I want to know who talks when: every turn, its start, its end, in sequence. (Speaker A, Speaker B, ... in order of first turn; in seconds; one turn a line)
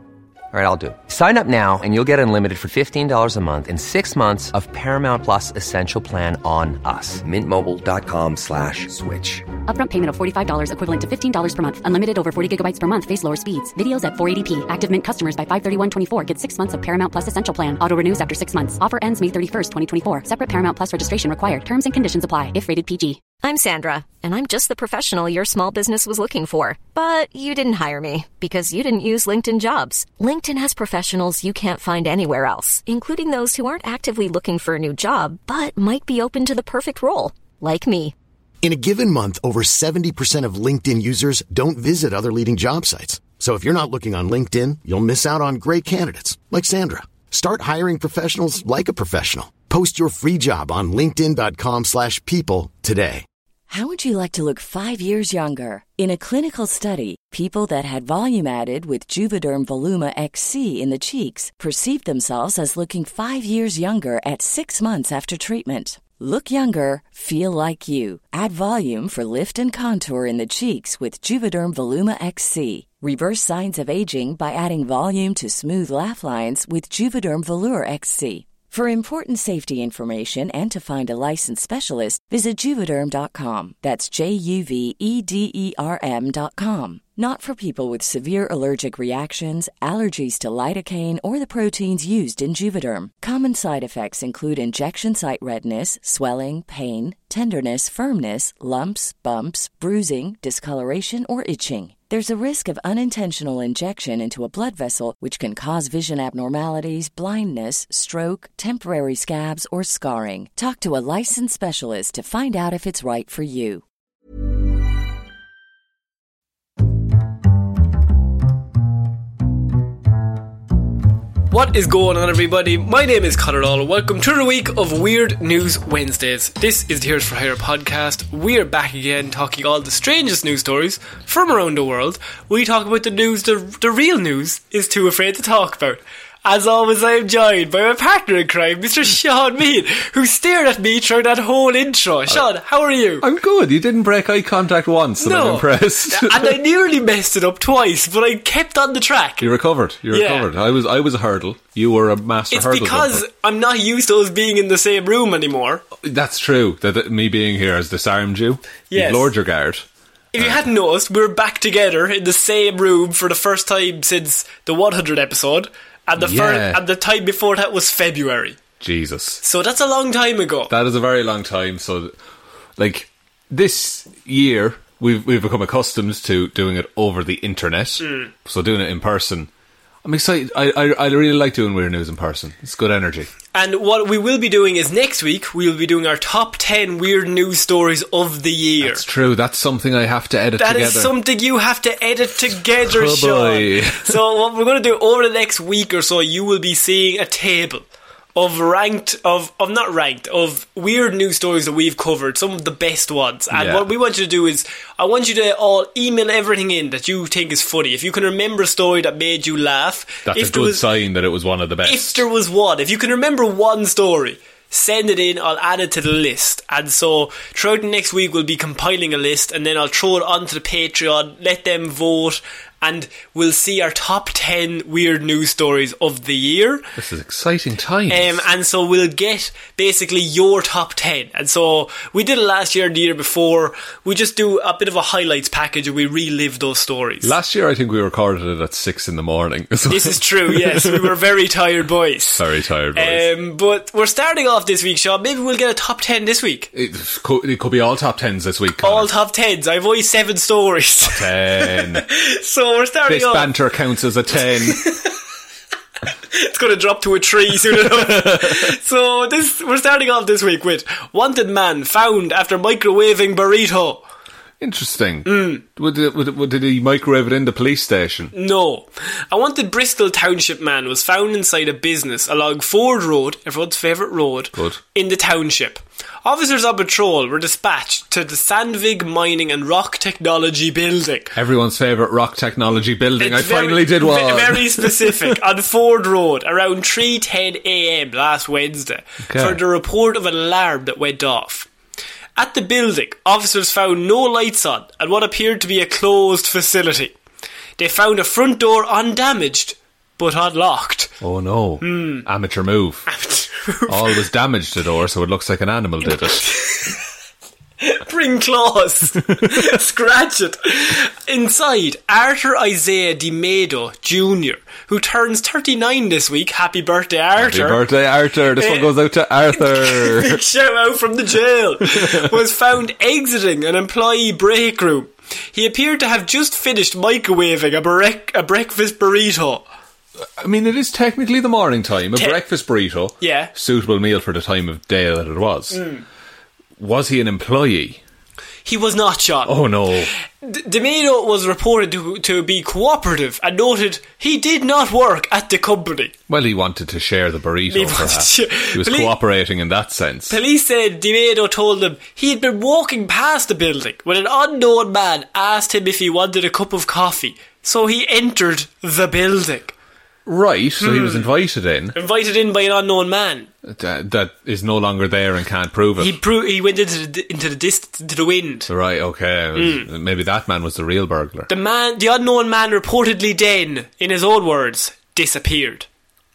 Speaker A: 0.5-9.5
Speaker B: 9.7-23.2
Speaker C: 23.4-38.1
Speaker D: 38.6-53.2
Speaker E: 53.7-113.8
Speaker F: 121.5-143.2
Speaker G: 143.2-146.6
Speaker F: 145.2-149.5
Speaker G: 149.4-153.3
Speaker F: 150.1-150.5
Speaker F: 152.5-155.8
Speaker G: 156.0-159.8
Speaker F: 158.9-159.3
Speaker F: 160.3-168.6
Speaker G: 160.4-160.6
Speaker G: 166.2-166.8
Speaker G: 168.8-169.4
Speaker F: 169.4-170.7
Speaker G: 170.7-172.1
Speaker G: 172.8-179.5
Speaker F: 178.0-178.3
Speaker G: 180.0-183.3
Speaker F: 183.5-189.0
Speaker G: 188.8-191.2
Speaker F: 190.6-210.9
Speaker G: 192.8-194.2
Speaker G: 203.5-203.9
Speaker G: 210.3-212.2
Speaker F: 211.8-226.8
Speaker G: 227.0-228.4
Speaker F: 228.1-237.3
Speaker G: 237.2-241.2
Speaker F: 239.9-242.4
Speaker G: 242.4-243.3
Speaker F: 242.9-246.7
Speaker G: 246.7-249.1
Speaker F: 248.8-253.5
Speaker G: 251.0-252.1
Speaker G: 253.1-254.8
Speaker F: 254.8-255.0
Speaker F: 256.3-264.0
Speaker G: 257.7-258.7
Speaker G: 264.6-268.3
Speaker F: 265.2-265.6
Speaker F: 268.3-281.4
Speaker G: 281.4-285.4
Speaker F: 283.2-291.7
Speaker G: 289.3-289.6
Speaker F: 292.4-297.1
Speaker F: 297.8-301.1
Speaker G: 301.2-303.1
Speaker F: 301.8-302.3
Speaker F: 303.1-304.2
Speaker G: 303.9-306.5
Speaker F: 306.3-307.0
Speaker F: 307.8-317.8
Speaker G: 309.3-309.7
Speaker G: 317.4-320.4
Speaker F: 318.6-318.9
Speaker F: 319.6-329.6
Speaker G: 321.9-322.1
Speaker G: 330.4-335.9
Speaker F: 333.2-333.5
Speaker F: 335.7-336.0
Speaker G: 336.8-338.0
Speaker F: 338.7-339.5
Speaker G: 339.5-340.1
Speaker F: 340.4-346.1
Speaker G: 346.3-350.4
Speaker F: 347.7-349.1
Speaker F: 350.3-359.8
Speaker G: 360.3-362.0
Speaker F: 360.8-361.3
Speaker F: 361.9-363.5
Speaker G: 363.7-366.2
Speaker F: 366.0-368.7
Speaker G: 368.7-371.5
Speaker F: 369.6-369.9
Speaker F: 371.5-375.9